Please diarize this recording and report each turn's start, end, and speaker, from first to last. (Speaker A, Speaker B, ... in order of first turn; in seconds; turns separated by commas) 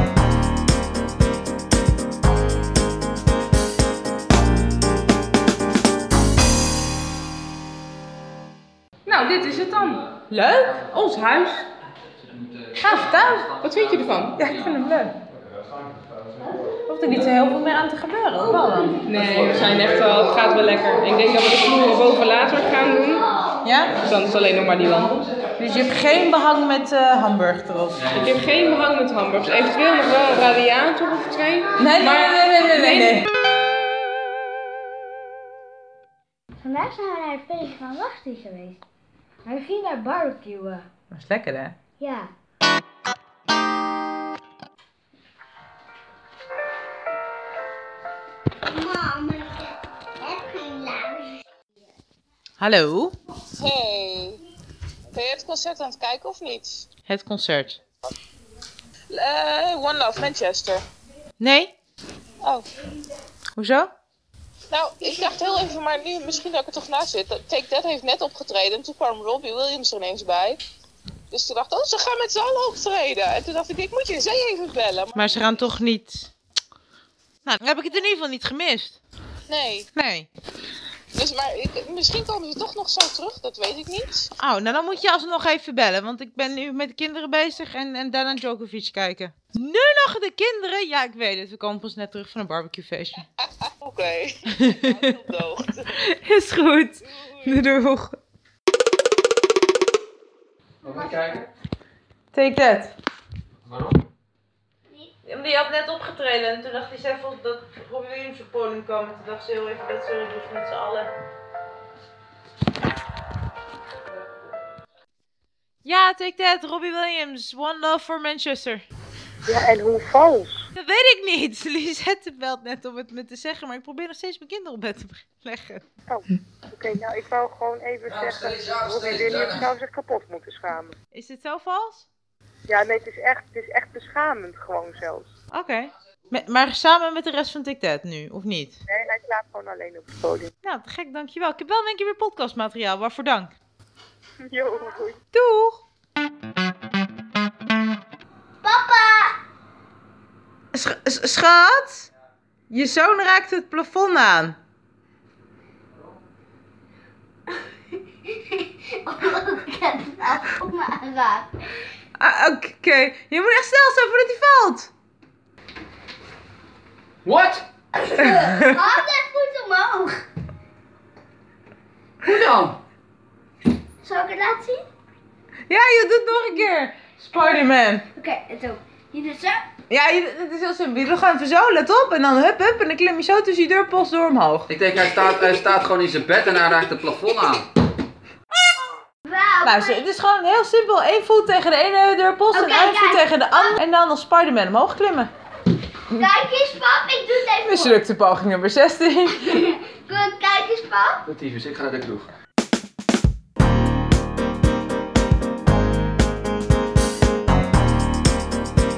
Speaker A: 9.1-10.0, Speaker B: 10.3-10.9, Speaker A: 10.9-11.7, Speaker B: 12.8-13.5, Speaker A: 13.6-14.4, Speaker B: 14.4-15.1, Speaker B: 16.9-19.0, Speaker A: 19.1-23.2, Speaker B: 23.6-24.0, Speaker A: 24.0-25.1, Speaker B: 25.6-28.0, Speaker A: 28.2-33.2, Speaker C: 31.0-31.7, Speaker B: 31.8-33.3, Speaker D: 36.6-38.8, Speaker D: 39.4-40.9, Speaker B: 41.1-41.8, Speaker D: 42.0-42.3, Speaker D: 48.6-51.4, Speaker B: 52.6-53.1, Speaker C: 53.6-54.4, Speaker C: 55.1-56.9, Speaker B: 57.1-57.8, Speaker C: 59.1-60.8, Speaker B: 61.4-61.7, Speaker B: 63.5-63.9, Speaker C: 64.7-70.6, Speaker C: 71.3-75.4, Speaker B: 75.1-76.3, Speaker B: 77.4-79.0, Speaker C: 79.5-79.9, Speaker B: 79.9-80.3, Speaker C: 81.1-84.3, Speaker B: 84.4-93.3, Speaker C: 93.6-95.9, Speaker B: 94.5-94.9, Speaker B: 96.0-98.2, Speaker E: 100.8-101.4, Speaker D: 100.8-101.4, Speaker B: 102.3-102.9, Speaker E: 103.7-104.0, Speaker B: 105.2-111.1, Speaker B: 115.8-118.8, Speaker F: 119.5-120.6, Speaker B: 120.7-125.8, Speaker F: 126.1-130.9, Speaker E: 128.1-129.6, Speaker B: 131.1-132.1, Speaker F: 132.7-135.3, Speaker B: 135.5-138.8, Speaker F: 138.9-140.5, Speaker B: 140.6-143.5, Speaker F: 144.4-145.2, Speaker B: 145.3-145.8, Speaker D: 148.6-149.4, Speaker B: 150.7-152.1, Speaker B: 152.7-154.6, Speaker D: 158.3-161.7, Speaker B: 162.2-164.9, Speaker E: 167.2-167.7, Speaker D: 167.9-170.2, Speaker B: 168.5-168.8, Speaker E: 172.2-172.8, Speaker D: 174.0-174.8, Speaker B: 175.7-178.1, Speaker D: 178.1-179.7, Speaker B: 179.9-184.7, Speaker E: 184.7-187.7, Speaker D: 189.2-190.0, Speaker B: 189.6-195.3, Speaker D: 192.5-193.8, Speaker D: 196.1-197.9, Speaker B: 197.5-199.6, Speaker D: 199.5-201.2, Speaker E: 201.2-202.3